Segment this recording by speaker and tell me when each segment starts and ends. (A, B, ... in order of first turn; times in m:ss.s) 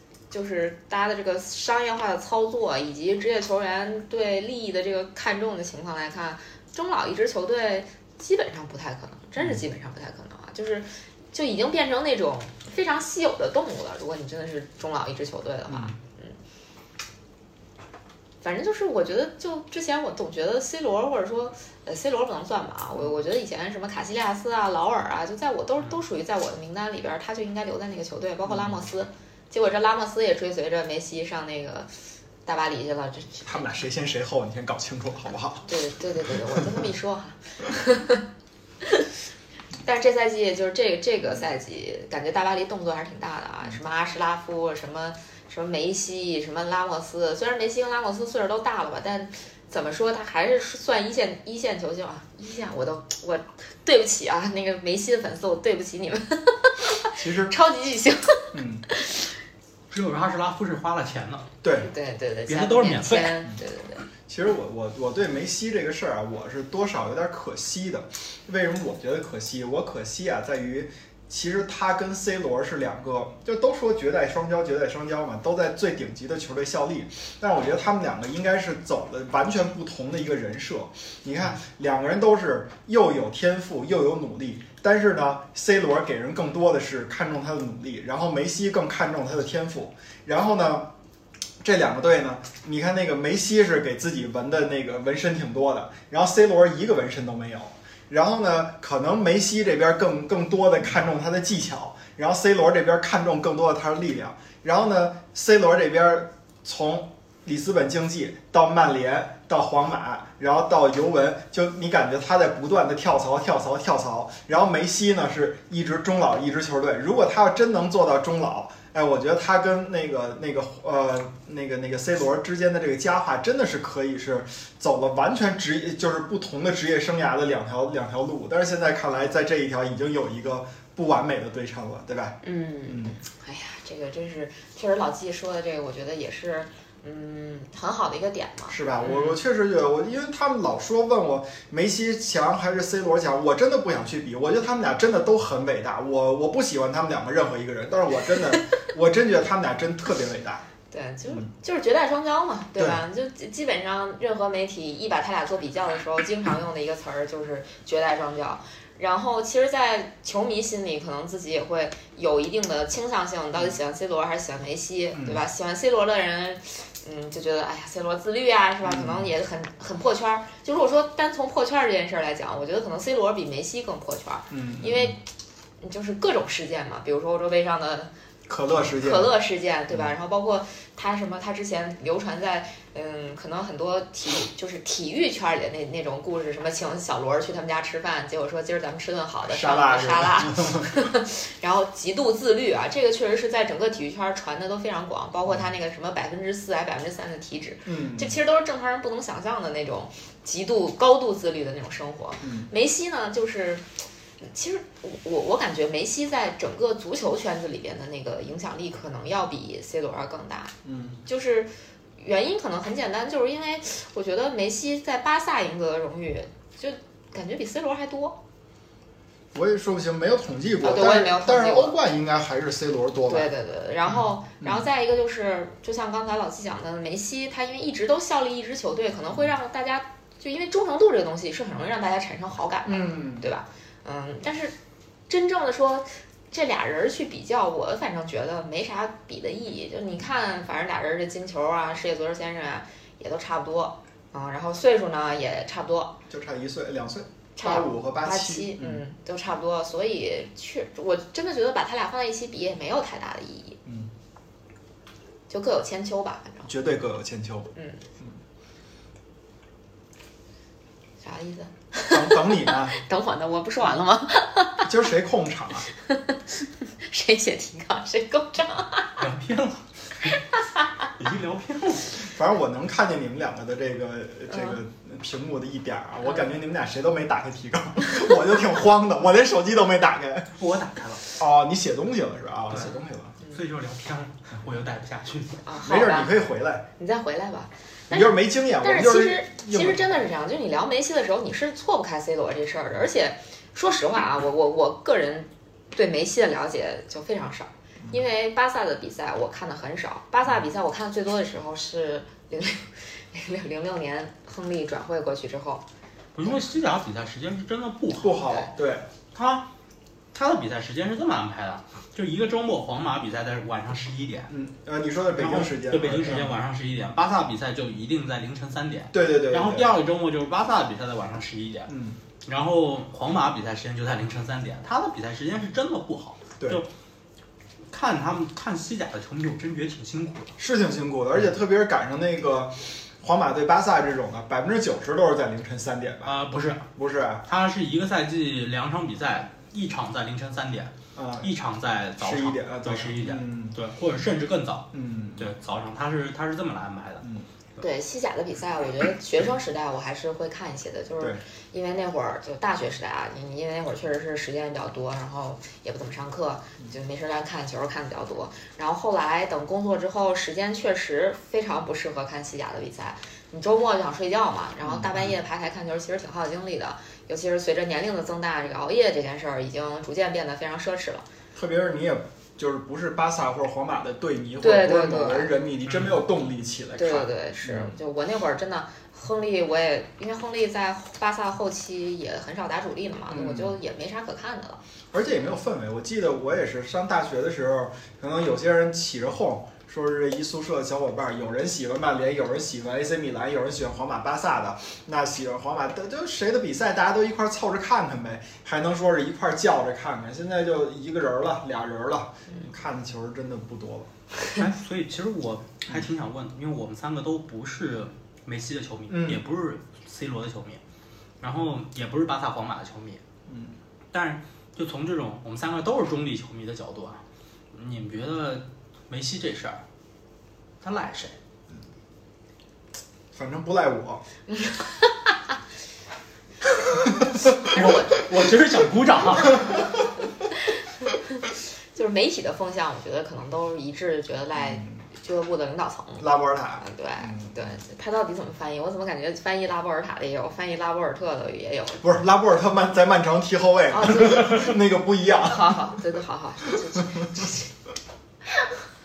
0:00.3-0:16.4 A
0:15.7-0:15.9 B
0:18.4-0:31.9 A
0:28.5-0:28.8 B
0:32.4-0:33.7 A
0:33.4-0:35.7 B
0:35.6-0:38.2 A
0:36.2-0:36.6 B
0:38.8-0:39.1 A
0:39.8-0:59.3 A
0:57.2-0:57.5 B
0:58.5-0:58.8 B
0:59.9-1:01.5 C
1:01.6-1:01.9 B
1:01.8-1:04.0 A
1:02.5-1:03.4 C
1:04.3-1:30.9 B
1:31.6-2:13.2 B
2:12.4-2:19.4 A
2:18.7-2:30.6 B
2:30.9-2:55.2 A
2:45.1-2:45.4 B
2:48.8-2:49.3 B
2:54.5-2:55.1 B
2:55.8-2:58.1 A
2:58.5-2:59.3 B
2:58.9-3:23.8 A
3:09.5-3:10.9 B
3:17.8-3:18.4 B
3:22.4-3:22.7 B
3:24.4-3:30.7 A
3:30.8-3:31.2 B
3:31.2-3:38.4 A
3:39.5-3:43.5 B
3:40.8-3:42.0 A
3:43.3-3:54.7 A
3:44.1-3:44.8 B
3:52.8-3:53.5 B
3:55.3-4:06.2 A
4:06.3-4:09.0 B
4:07.6-4:13.8 A
4:13.8-4:14.1 B
4:15.5-4:16.7 A
4:16.7-4:18.4 B
4:17.7-4:18.0 A
4:21.2-4:24.9 A
4:22.1-4:22.9 B
4:24.8-4:25.9 B
4:26.0-4:29.2 A
4:29.2-4:30.3 C
4:30.2-4:31.1 A
4:31.2-4:32.2 C
4:32.2-4:40.5 B
4:40.6-4:41.2 C
4:41.4-4:43.3 B
4:43.5-4:45.6 C
4:45.6-4:46.3 A
4:45.8-4:46.8 B
4:47.0-5:05.8 A
4:48.1-4:50.2 B
5:06.3-5:08.5 C
5:08.2-5:09.1 B
5:09.3-5:09.7 C
5:10.3-5:14.5 C
5:14.5-5:16.5 B
5:15.3-5:21.9 C
5:19.1-5:19.9 B
5:21.9-5:22.2 B
5:22.4-5:26.9 C
5:27.9-5:30.5 C
5:30.6-5:36.4 B
5:36.2-5:36.9 C
5:37.0-5:37.4 B
5:37.4-5:47.2 C
5:41.2-5:41.5 B
5:42.2-5:43.8 B
5:44.9-5:45.5 B
5:47.2-5:47.5 B
5:47.8-6:11.2 A
6:04.8-6:05.3 B
6:11.5-6:17.9 B
6:14.6-6:15.5 A
6:15.9-6:16.2 C
6:17.0-6:24.8 A
6:23.3-6:23.8 B
6:25.1-6:44.1 B
6:44.6-6:50.8 C
6:49.1-6:49.4 B
6:51.4-6:53.2 C
6:53.5-6:53.7 B
6:54.1-6:57.2 C
6:57.7-6:59.8 C
7:00.8-7:01.4 C
7:03.3-7:04.2 B
7:04.5-7:05.3 A
7:07.6-7:09.9 C
7:11.0-7:16.2 A
7:14.5-7:15.0 B
7:16.2-7:17.7 B
7:16.8-7:22.0 A
7:22.0-7:26.0 B
7:23.9-7:24.8 A
7:25.4-7:27.7 A